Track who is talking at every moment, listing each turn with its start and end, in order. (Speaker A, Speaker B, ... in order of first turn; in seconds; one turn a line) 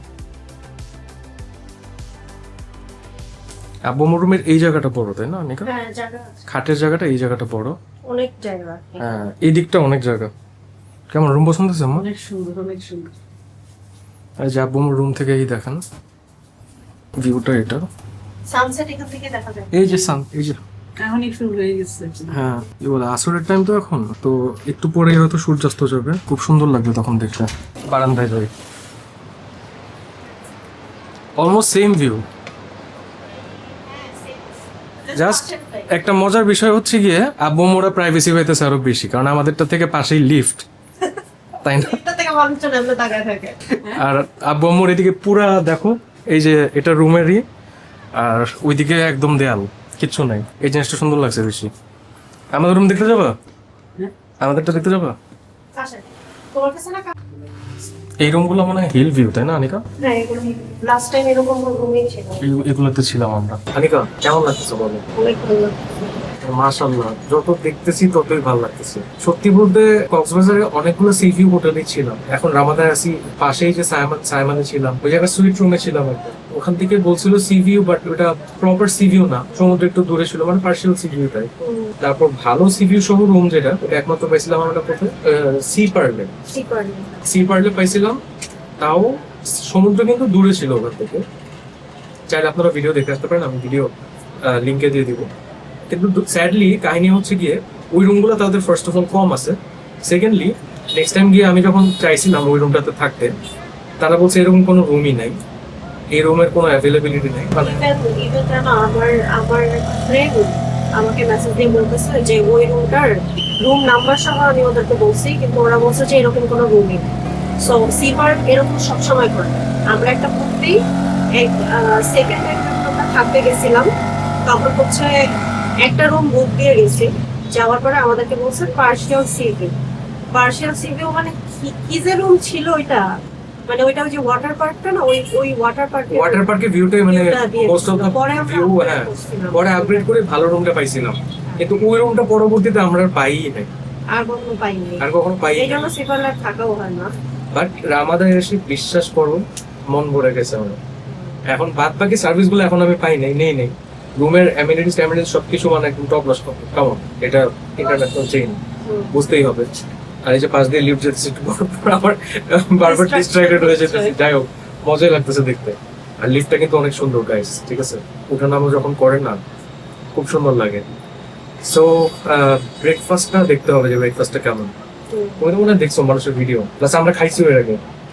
Speaker A: 3.9-5.7
Speaker B: 5.7-6.4
Speaker A: 6.5-7.8
Speaker B: 8.1-9.1
Speaker A: 9.0-10.3
Speaker A: 11.1-12.1
Speaker C: 12.1-13.1
Speaker A: 14.4-15.8
Speaker A: 17.2-17.8
Speaker B: 18.5-19.7
Speaker A: 19.7-20.6
Speaker C: 21.0-22.4
Speaker A: 22.3-28.5
Speaker A: 31.4-32.2
Speaker B: 33.8-35.9
Speaker A: 35.1-40.7
Speaker A: 41.6-42.0
Speaker B: 41.8-43.6
Speaker A: 43.9-47.4
Speaker A: 48.1-51.7
Speaker A: 52.5-53.3
Speaker A: 54.4-55.2
Speaker B: 55.8-57.1
Speaker A: 58.2-59.8
Speaker B: 60.0-62.5
Speaker A: 62.4-65.1
Speaker B: 65.2-65.9
Speaker A: 66.4-81.5
Speaker B: 81.6-82.0
Speaker A: 82.0-86.3
Speaker B: 86.5-87.2
Speaker A: 87.2-88.2
Speaker A: 88.8-91.2
Speaker A: 92.3-95.3
Speaker A: 95.9-103.3
Speaker A: 104.0-105.4
Speaker A: 106.1-107.9
Speaker B: 107.6-117.1
Speaker B: 117.6-120.8
Speaker B: 121.4-123.9
Speaker B: 124.5-125.2
Speaker B: 125.8-129.8
Speaker B: 130.3-133.1
Speaker B: 133.7-136.5
Speaker A: 136.1-143.7
Speaker B: 137.1-140.1
Speaker B: 144.1-147.1
Speaker A: 145.0-145.9
Speaker A: 147.5-150.8
Speaker B: 151.1-151.4
Speaker A: 151.5-158.6
Speaker B: 158.8-159.1
Speaker A: 159.1-159.7
Speaker A: 160.2-169.4
Speaker B: 162.8-164.2
Speaker A: 170.1-170.8
Speaker A: 171.6-174.7
Speaker B: 175.1-175.4
Speaker A: 175.4-177.8